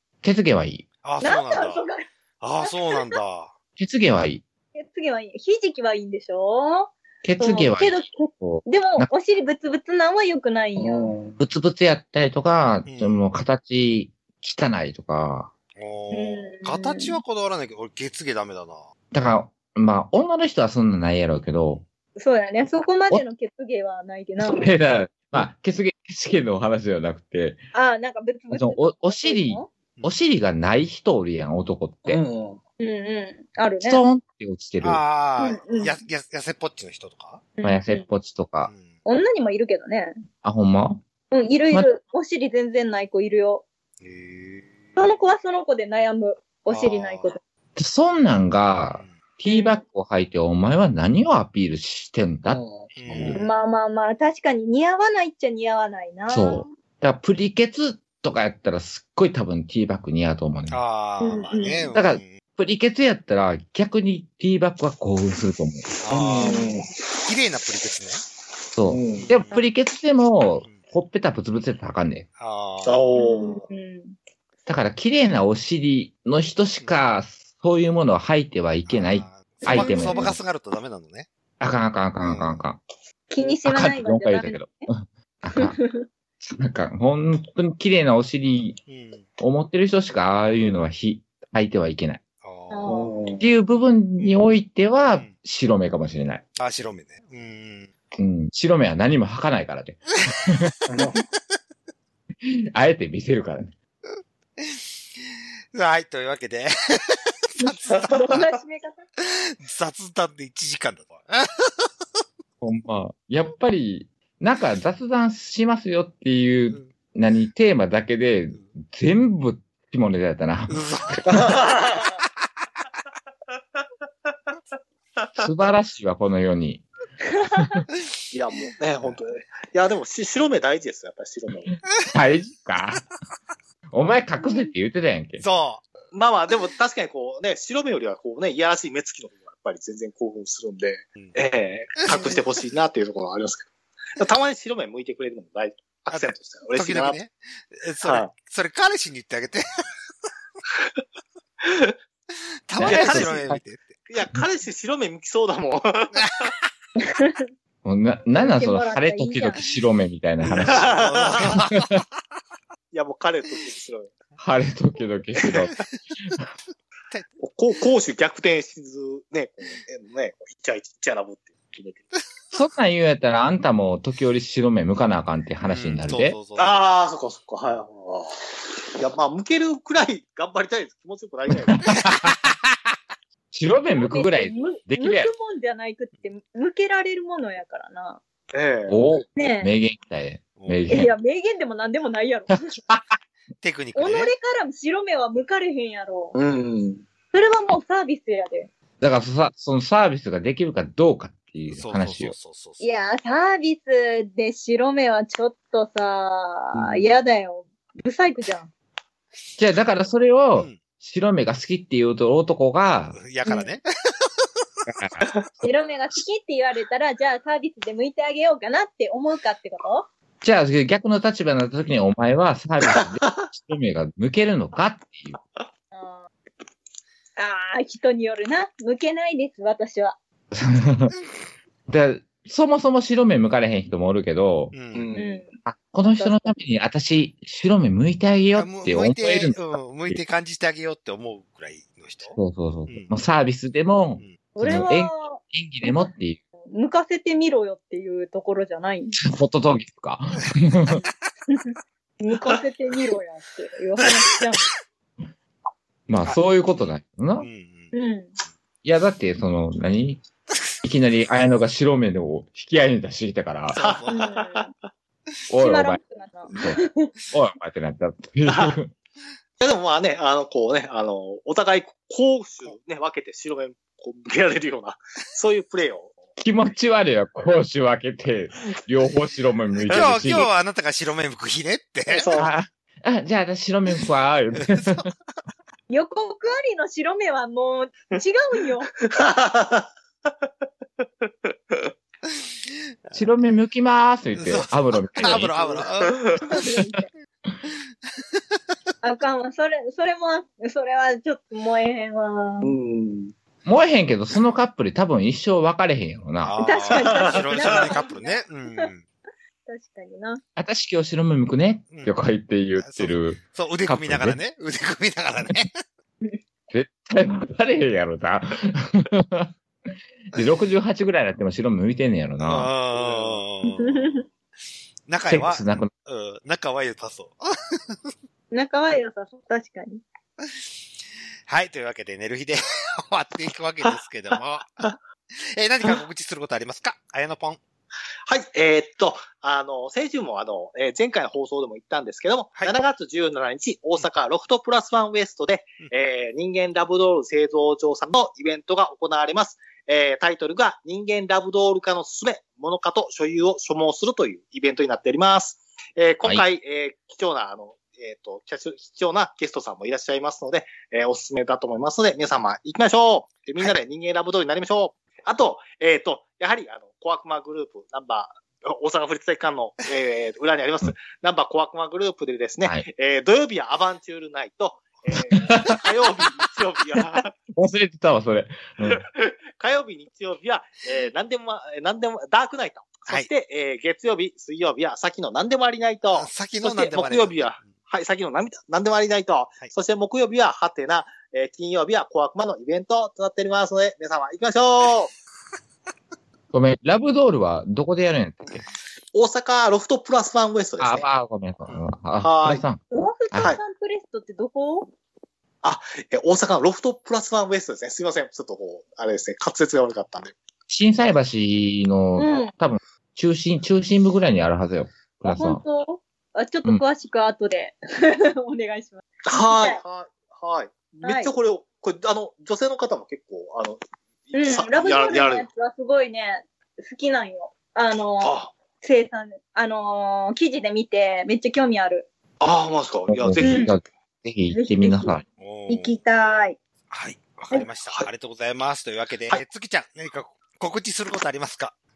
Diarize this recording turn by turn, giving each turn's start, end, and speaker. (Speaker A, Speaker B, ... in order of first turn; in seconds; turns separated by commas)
Speaker A: 0.2-0.8, Speaker B: 1.0-1.8, Speaker C: 1.2-2.1, Speaker B: 2.4-3.5, Speaker C: 2.6-3.2, Speaker A: 3.8-4.4, Speaker C: 4.7-11.1, Speaker A: 7.2-9.1, Speaker D: 10.8-11.4, Speaker A: 11.4-15.5, Speaker B: 12.9-13.2, Speaker B: 15.8-18.9, Speaker C: 16.1-17.2, Speaker A: 19.1-21.8, Speaker C: 22.1-24.7, Speaker A: 24.4-27.6, Speaker C: 27.7-29.7, Speaker A: 28.5-32.2, Speaker D: 32.0-32.6, Speaker C: 32.8-34.0, Speaker A: 33.8-35.0, Speaker B: 34.8-37.4, Speaker C: 35.4-36.0, Speaker C: 37.6-38.0, Speaker A: 37.6-38.7, Speaker B: 38.7-39.0, Speaker C: 39.0-40.2, Speaker A: 40.4-41.0, Speaker C: 41.3-43.6, Speaker B: 44.0-45.0, Speaker C: 45.0-47.4, Speaker B: 46.7-47.3, Speaker A: 47.8-53.4, Speaker C: 49.5-49.8, Speaker D: 52.5-53.4, Speaker B: 53.0-53.4, Speaker C: 53.3-56.7, Speaker A: 56.3-60.8, Speaker B: 60.7-62.4, Speaker C: 61.2-61.9, Speaker A: 61.9-66.0, Speaker B: 66.0-66.6, Speaker D: 66.1-67.0, Speaker C: 66.4-66.8, Speaker B: 67.3-68.2, Speaker A: 68.7-72.3, Speaker D: 68.8-69.3, Speaker B: 69.1-69.7, Speaker B: 70.6-70.9, Speaker B: 72.4-73.1, Speaker D: 72.8-73.6, Speaker C: 73.2-74.2, Speaker A: 74.7-80.4, Speaker B: 78.9-81.3, Speaker C: 79.6-80.3, Speaker A: 81.6-82.8, Speaker B: 82.2-82.6, Speaker C: 83.3-84.9, Speaker A: 83.6-85.8, Speaker C: 85.5-86.0, Speaker A: 86.4-88.8, Speaker B: 88.9-89.3, Speaker A: 89.4-92.2, Speaker B: 92.4-92.9, Speaker C: 92.7-93.2, Speaker D: 92.9-93.5, Speaker A: 93.4-96.4, Speaker B: 96.6-97.9, Speaker A: 98.2-100.7, Speaker D: 100.9-101.2, Speaker A: 102.4-103.7, Speaker B: 104.1-108.1, Speaker C: 107.6-109.0, Speaker D: 107.9-108.4, Speaker B: 109.2-111.9, Speaker A: 112.6-121.4, Speaker B: 120.7-121.5, Speaker D: 121.2-122.2, Speaker A: 125.4-126.8, Speaker C: 127.3-127.8, Speaker A: 127.5-127.8, Speaker D: 128.3-131.7, Speaker A: 132.1-133.1, Speaker A: 133.9-135.4, Speaker C: 134.4-134.7, Speaker B: 135.4-135.9, Speaker D: 136.1-147.2, Speaker C: 142.1-142.4, Speaker B: 146.1-149.6, Speaker D: 148.0-148.3, Speaker D: 151.6-151.9, Speaker B: 152.7-154.0, Speaker A: 152.8-153.6, Speaker D: 152.8-153.4, Speaker D: 154.1-156.5, Speaker B: 156.1-156.5, Speaker C: 157.0-157.5, Speaker A: 157.8-160.9, Speaker C: 158.3-159.6, Speaker B: 160.4-161.9, Speaker D: 160.6-161.6, Speaker A: 161.4-162.0, Speaker D: 162.9-164.1, Speaker A: 164.4-165.8, Speaker D: 165.4-165.7, Speaker D: 167.4-172.1, Speaker A: 172.5-176.4, Speaker B: 175.6-176.8, Speaker D: 176.6-181.9, Speaker A: 181.6-182.7, Speaker B: 181.9-182.3, Speaker A: 183.5-185.3, Speaker C: 183.9-188.2, Speaker D: 188.5-189.2, Speaker A: 188.9-191.1, Speaker C: 189.4-189.7, Speaker B: 190.6-190.9, Speaker C: 190.9-192.8, Speaker A: 192.7-193.1, Speaker B: 193.6-194.3, Speaker C: 193.9-196.4, Speaker D: 196.3-197.0, Speaker C: 197.3-198.7, Speaker A: 199.0-202.3, Speaker B: 201.7-202.8, Speaker C: 202.8-208.7, Speaker D: 206.7-207.1, Speaker A: 209.6-213.2, Speaker B: 210.6-210.8, Speaker B: 213.1-214.3, Speaker C: 213.4-213.7, Speaker A: 214.9-215.3, Speaker C: 215.6-220.1, Speaker A: 220.4-225.4, Speaker D: 222.9-223.3, Speaker C: 225.9-226.3, Speaker C: 227.4-230.2, Speaker A: 230.5-231.1, Speaker A: 231.9-234.7, Speaker B: 234.7-235.1, Speaker D: 234.9-235.4, Speaker C: 235.2-235.6, Speaker A: 235.6-240.2, Speaker B: 238.6-243.1, Speaker A: 242.3-246.4, Speaker C: 244.6-246.1, Speaker C: 246.7-249.2, Speaker A: 249.2-251.0, Speaker C: 251.5-254.7, Speaker A: 256.1-257.5, Speaker B: 257.4-257.9, Speaker C: 257.9-258.3, Speaker A: 258.8-260.2, Speaker A: 260.8-263.8, Speaker B: 263.7-264.2, Speaker D: 263.7-264.7, Speaker C: 264.1-264.7, Speaker A: 265.5-266.0, Speaker C: 265.6-267.1, Speaker A: 266.5-268.9, Speaker D: 268.5-268.8, Speaker D: 269.6-276.2, Speaker A: 276.4-280.5, Speaker B: 279.9-282.4, Speaker D: 282.1-282.5, Speaker A: 282.4-285.1, Speaker B: 284.6-285.1, Speaker C: 285.9-288.9, Speaker D: 289.1-290.3, Speaker D: 291.2-291.9, Speaker B: 292.3-293.2, Speaker A: 293.1-295.5, Speaker B: 294.4-296.6, Speaker D: 295.6-296.4, Speaker C: 296.4-297.1, Speaker B: 298.3-298.6, Speaker C: 299.0-302.7, Speaker D: 302.6-303.3, Speaker A: 303.6-306.6, Speaker B: 306.4-309.1, Speaker C: 306.6-308.9, Speaker D: 306.9-308.0, Speaker C: 309.7-310.4, Speaker A: 310.6-314.4, Speaker B: 312.8-315.8, Speaker A: 316.7-319.5, Speaker A: 320.3-322.7, Speaker B: 322.4-324.1, Speaker D: 322.9-323.4, Speaker C: 323.8-324.2, Speaker B: 325.1-327.9, Speaker A: 325.3-325.9, Speaker C: 328.5-330.0, Speaker B: 330.4-330.7, Speaker B: 331.5-334.8, Speaker B: 335.4-337.6, Speaker D: 338.3-377.4, Speaker A: 377.5-379.1, Speaker D: 378.8-395.1, Speaker B: 386.1-387.7, Speaker A: 396.5-398.6, Speaker D: 399.1-401.1, Speaker A: 400.8-403.6, Speaker D: 402.2-402.7, Speaker C: 402.9-404.9, Speaker D: 405.6-410.3, Speaker A: 410.7-415.6, Speaker C: 412.2-412.5, Speaker C: 415.2-419.8, Speaker D: 419.3-423.8, Speaker C: 421.0-421.3, Speaker D: 424.3-425.4, Speaker C: 424.3-432.1, Speaker D: 428.2-428.5, Speaker D: 432.4-433.8, Speaker A: 433.1-435.2, Speaker C: 433.4-433.7, Speaker C: 434.5-435.1, Speaker B: 435.4-435.9, Speaker C: 435.7-436.6, Speaker B: 436.9-441.7